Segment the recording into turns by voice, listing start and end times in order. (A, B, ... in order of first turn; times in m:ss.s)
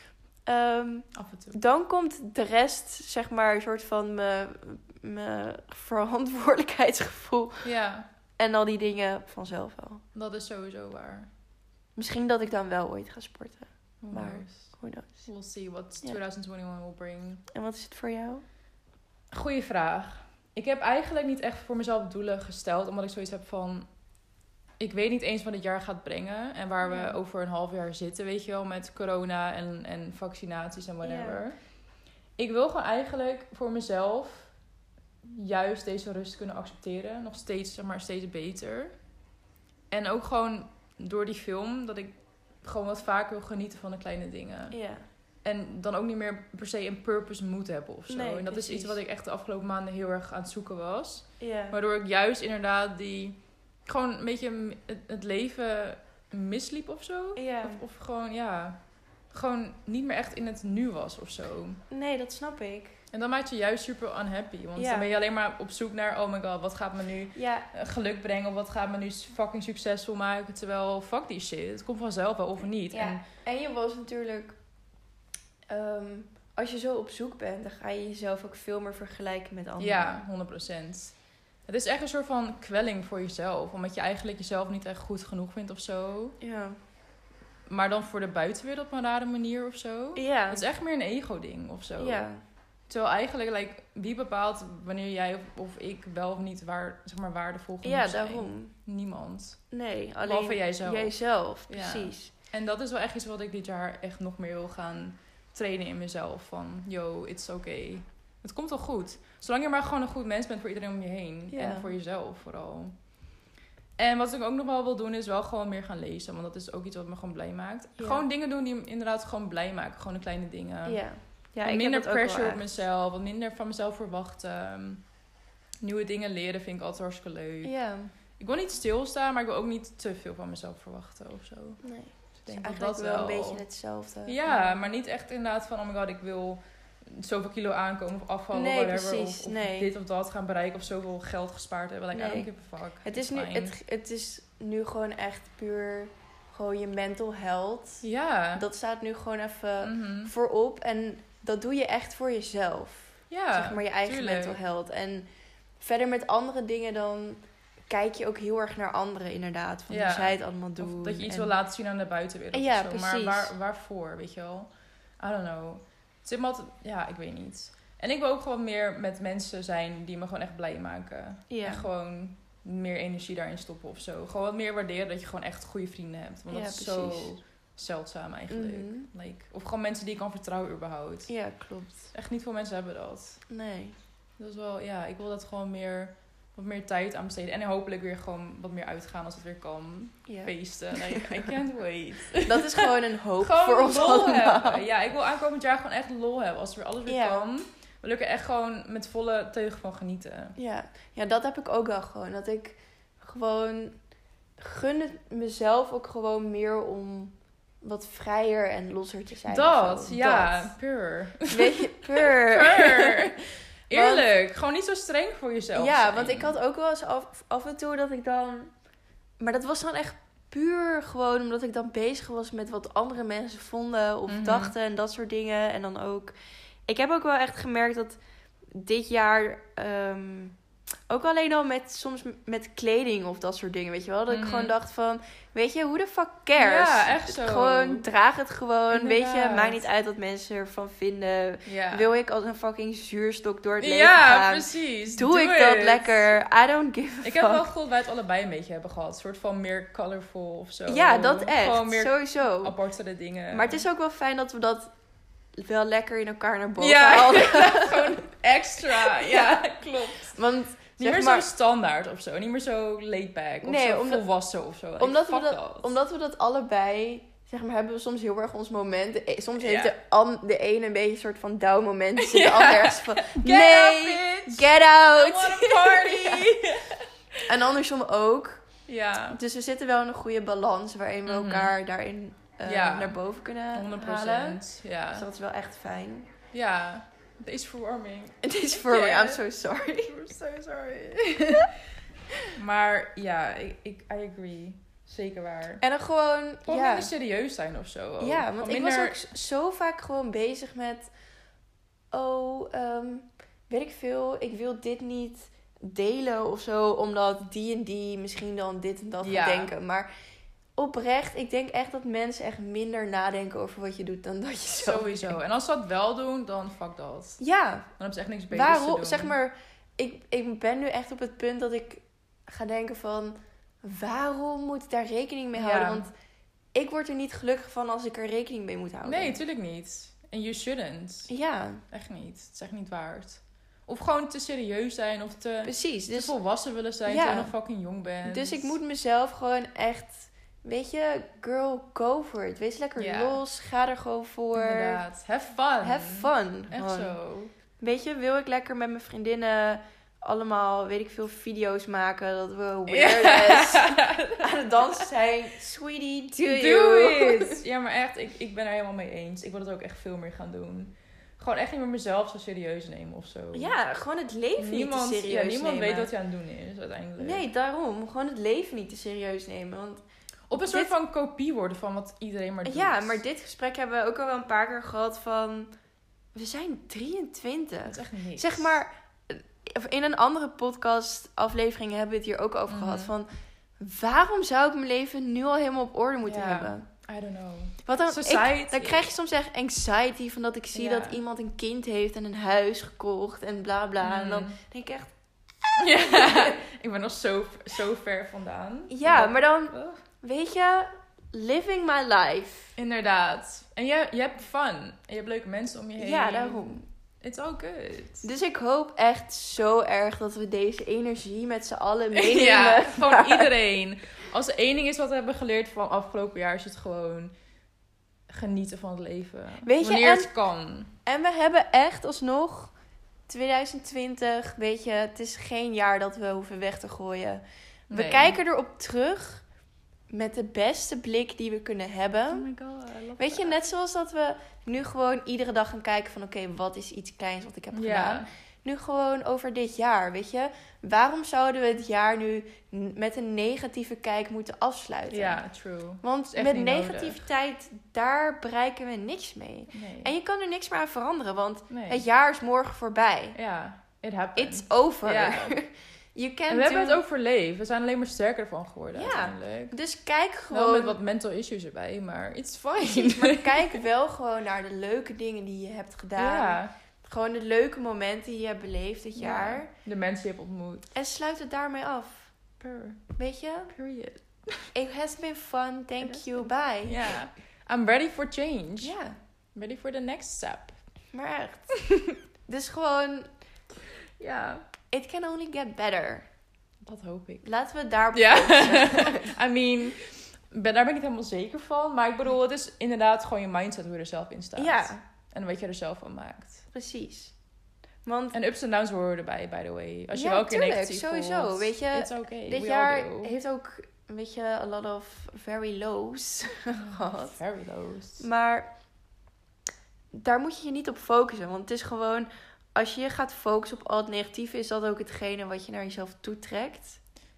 0:00.4-0:07.7 A
0:01.1-0:01.6 B
0:07.6-0:08.1 B
0:08.4-0:10.0 A
0:10.1-0:11.3 B
0:12.0-0:15.3 A
0:14.0-0:17.4 B
0:17.5-0:18.4 A
0:19.3-0:23.9 B
0:24.8-0:31.6 B
0:26.8-0:27.2 A
0:31.0-0:31.4 A
0:32.4-0:34.5 B
0:35.2-0:39.0 B
0:39.9-0:44.8 B
0:44.7-0:45.0 A
0:45.4-1:01.8 B
0:48.1-0:49.0 A
0:51.4-0:51.8 A
0:57.4-0:57.8 A
1:01.9-1:03.0 A
1:03.1-1:13.2 B
1:04.8-1:05.1 A
1:07.3-1:07.7 A
1:12.9-1:14.6 A
1:15.7-1:20.2 A
1:19.8-1:26.4 B
1:26.4-1:26.8 A
1:27.7-1:32.3 B
1:30.2-1:30.6 A
1:32.0-1:32.4 A
1:32.9-1:39.7 B
1:37.8-1:38.7 A
1:39.7-1:42.3 A
1:40.2-1:41.1 B
1:41.7-1:53.0 B
1:51.5-1:51.9 A
1:54.0-2:01.0 B
1:58.0-1:58.2 A
2:00.8-2:02.7 A
2:01.6-2:05.1 B
2:05.8-2:07.7 B
2:07.6-2:08.1 A
2:08.4-2:11.8 B
2:11.8-2:14.8 A
2:12.4-2:13.6 B
2:14.2-2:23.8 B
2:18.5-2:19.9 A
2:22.1-2:22.5 A
2:23.0-2:41.5 A
2:28.0-2:28.6 B
2:29.8-2:30.3 B
2:33.3-2:34.6 B
2:39.9-3:01.3 B
2:42.5-2:43.5 A
2:51.5-2:51.8 A
2:56.5-2:57.4 A
2:58.5-2:59.1 A
3:01.3-3:02.1 A
3:02.1-3:03.4 B
3:03.5-3:04.0 A
3:04.4-3:20.6 B
3:10.3-3:11.3 A
3:12.4-3:14.8 A
3:17.1-3:17.4 A
3:20.6-3:24.0 A
3:24.6-3:30.7 A
3:29.5-3:36.6 B
3:31.5-3:33.3 A
3:33.9-3:34.2 A
3:35.7-3:38.7 A
3:39.4-3:46.3 A
3:44.3-3:44.7 B
3:46.9-3:48.2 A
3:48.7-3:50.6 A
3:51.1-4:07.7 A
3:54.3-3:54.7 B
3:56.5-3:58.1 B
3:58.9-3:59.8 B
4:01.6-4:02.1 B
4:03.8-4:06.4 B
4:07.2-4:13.8 B
4:10.9-4:12.8 A
4:13.5-4:14.9 A
4:15.5-4:18.3 A
4:16.8-4:20.4 B
4:18.9-4:21.5 A
4:21.0-4:25.9 B
4:23.6-4:24.2 A
4:25.0-4:36.6 A
4:29.6-4:29.9 B
4:32.2-4:37.4 B
4:37.4-4:38.7 A
4:38.8-4:39.4 B
4:39.3-4:46.3 A
4:41.2-4:41.8 B
4:42.6-4:45.3 B
4:46.5-4:49.4 B
4:48.4-4:50.1 A
4:50.0-4:51.7 B
4:52.5-4:55.8 B
4:55.8-4:57.1 A
4:56.6-4:59.2 B
4:58.2-5:01.1 A
5:02.1-5:10.1 A
5:09.2-5:09.7 B
5:10.8-5:15.4 A
5:14.8-5:17.4 B
5:17.4-5:17.9 A
5:18.0-5:19.3 B
5:18.5-5:26.1 A
5:25.5-5:26.1 B
5:26.7-5:29.4 A
5:29.0-5:31.3 B
5:31.3-5:31.8 A
5:31.9-5:38.8 B
5:35.6-5:36.4 A
5:37.0-5:37.6 A
5:38.2-5:45.0 A
5:43.0-5:43.4 B
5:44.5-5:47.5 B
5:45.8-5:47.2 A
5:47.8-5:57.6 A
5:52.9-5:55.1 B
5:56.4-6:03.7 B
6:03.5-6:06.1 A
6:04.6-6:07.4 B
6:07.2-6:10.0 A
6:10.5-6:13.2 B
6:10.5-6:10.9 A
6:12.6-6:15.7 A
6:16.3-6:26.9 A
6:17.8-6:18.8 B
6:22.7-6:23.1 B
6:26.2-6:29.0 B
6:27.8-6:35.1 A
6:30.7-6:31.2 B
6:34.0-6:34.6 B
6:35.8-6:40.0 B
6:36.2-6:36.5 A
6:38.9-6:42.8 A
6:42.8-6:48.2 B
6:46.0-6:46.8 A
6:48.2-6:53.5 A
6:52.1-6:57.3 B
6:58.3-7:00.9 B
6:59.6-7:00.3 A
7:01.0-7:02.7 A
7:03.3-7:09.4 A
7:07.9-7:08.4 B
7:10.1-7:12.5 A
7:12.3-7:13.6 B
7:13.2-7:25.4 A
7:17.7-7:18.3 B
7:25.1-7:27.2 B
7:26.0-7:33.4 A
7:29.7-7:30.1 B
7:31.7-7:32.0 B
7:33.3-7:35.6 B
7:34.4-7:37.0 A
7:36.5-7:39.8 B
7:38.9-7:41.0 A
7:40.5-7:43.8 B
7:42.8-7:49.7 A
7:46.2-7:46.7 B
7:49.2-7:50.9 B
7:50.9-7:52.3 A
7:52.6-7:53.1 B
7:53.2-7:53.7 A
7:53.7-7:54.7 B
7:54.7-7:57.1 A
7:56.0-7:59.0 B
7:58.8-7:59.2 A
7:59.5-8:00.8 B
8:01.1-8:01.9 A
8:02.5-8:03.3 A
8:04.2-8:04.6 B
8:04.9-8:06.3 A
8:06.8-8:07.4 B
8:07.4-8:09.3 A
8:08.1-8:16.6 B
8:14.6-8:15.0 A
8:16.7-8:17.3 A
8:18.0-8:18.4 A
8:18.3-8:23.4 B
8:20.1-8:27.4 A
8:26.7-8:28.2 B
8:28.2-8:28.7 A
8:30.1-8:37.0 A